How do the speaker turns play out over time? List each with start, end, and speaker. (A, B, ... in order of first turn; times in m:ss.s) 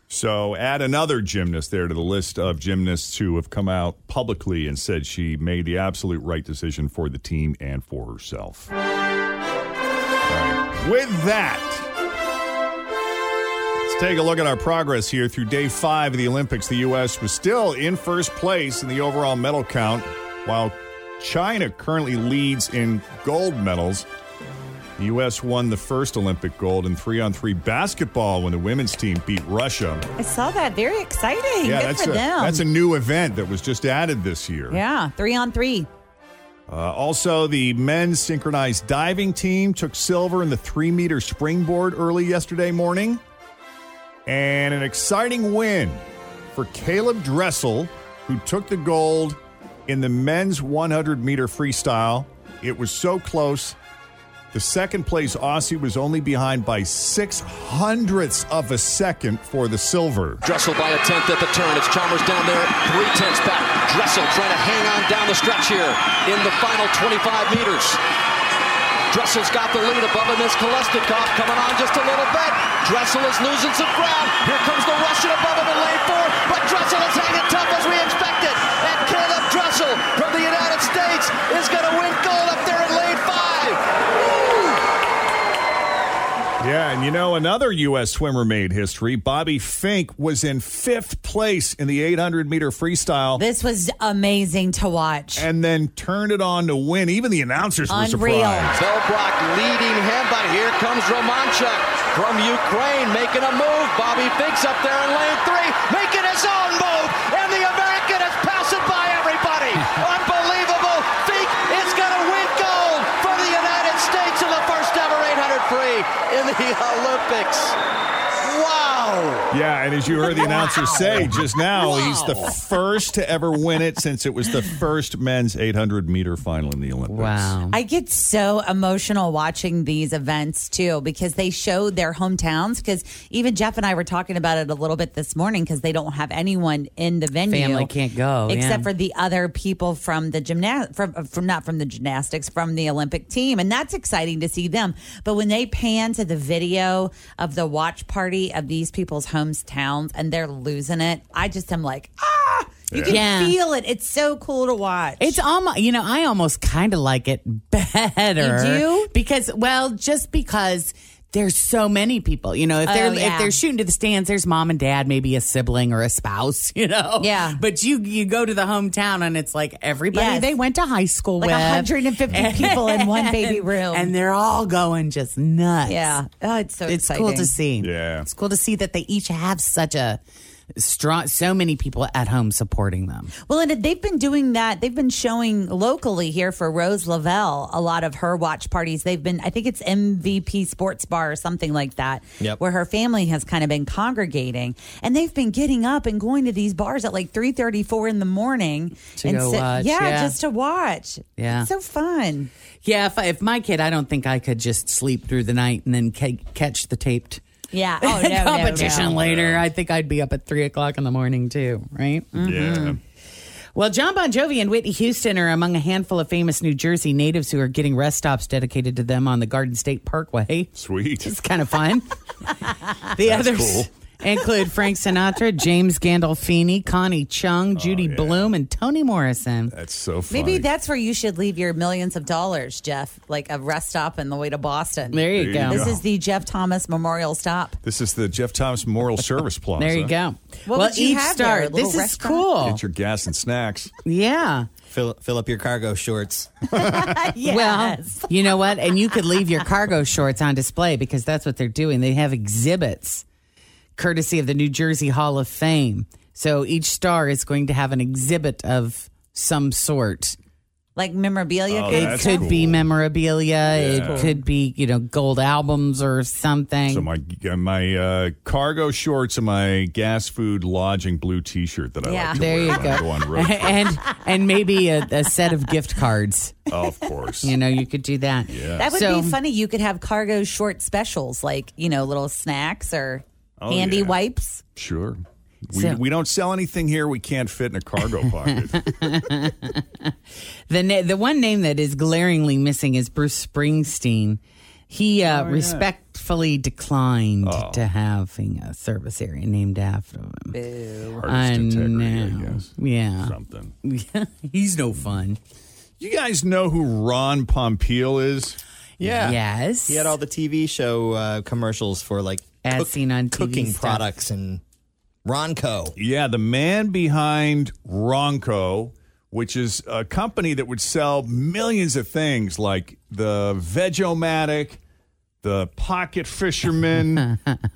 0:00.1-0:08.7 A
0:10.3-0:11.9 A
0:13.8-0:24.0 A
0:25.0-0:30.0 A
0:30.2-0:32.6 B
0:31.6-0:34.8 A
0:34.7-0:35.9 B
0:36.7-0:43.2 A
0:44.2-0:46.0 A
0:46.5-0:49.4 A
0:49.9-0:53.8 A
0:54.5-1:00.4 A
1:00.4-1:08.0 C
1:09.1-1:23.8 C
1:26.6-1:33.4 A
1:33.4-1:35.5 B
1:35.4-1:38.8 A
1:37.9-1:38.7 B
1:38.8-1:57.8 C
1:58.4-1:59.5 C
1:59.5-2:07.5 A
2:07.1-2:07.8 D
2:07.7-2:17.9 B
2:17.5-2:18.9 D
2:18.5-2:35.4 B
2:32.9-2:33.2 A
2:33.1-2:33.6 D
2:35.2-2:56.2 D
2:38.4-2:39.1 B
2:42.8-2:43.6 B
2:47.2-2:47.6 B
2:50.1-2:50.5 B
2:51.4-2:54.1 B
2:52.3-2:52.7 E
2:55.9-2:57.5 B
2:56.8-3:00.2 D
2:57.8-2:58.3 A
3:00.8-3:03.3 D
3:03.5-3:22.5 B
3:19.2-3:20.3 D
3:21.4-3:21.7 D
3:22.8-3:27.4 D
3:27.7-3:29.2 B
3:28.0-3:32.4 D
3:28.8-3:29.6 A
3:32.3-3:33.0 B
3:32.4-3:33.0 A
3:33.7-3:42.0 D
3:40.7-3:41.3 A
3:43.1-3:49.7 D
3:43.2-3:43.9 A
3:47.7-3:48.5 A
3:49.7-3:50.7 A
3:50.3-3:57.8 B
3:55.1-3:55.9 D
3:55.3-3:56.0 A
3:57.8-4:00.1 A
3:59.8-4:02.8 D
4:00.7-4:02.4 B
4:02.6-4:03.9 A
4:04.0-4:04.7 D
4:04.9-4:07.1 E
4:06.8-4:08.9 B
4:07.4-4:13.2 D
4:14.0-4:20.4 D
4:21.0-4:22.5 B
4:21.7-4:22.9 A
4:21.9-4:27.1 D
4:23.7-4:24.4 A
4:23.7-4:24.3 B
4:26.9-4:33.9 A
4:32.0-4:33.0 B
4:32.3-4:36.6 D
4:36.7-4:37.5 A
4:37.4-4:39.4 D
4:38.5-4:38.9 A
4:38.8-4:44.6 B
4:43.6-4:44.2 A
4:44.8-4:49.2 A
4:48.4-4:50.1 D
4:50.7-5:00.5 D
4:55.3-4:55.9 A
4:57.4-4:57.9 A
5:00.5-5:01.2 B
5:01.1-5:03.7 A
5:01.3-5:03.3 D
5:03.8-5:05.4 D
5:06.0-5:08.6 A
5:09.0-5:14.6 E
5:09.2-5:10.1 D
5:12.6-5:14.1 D
5:15.2-5:15.9 E
5:16.0-5:24.8 A
5:25.4-5:27.3 A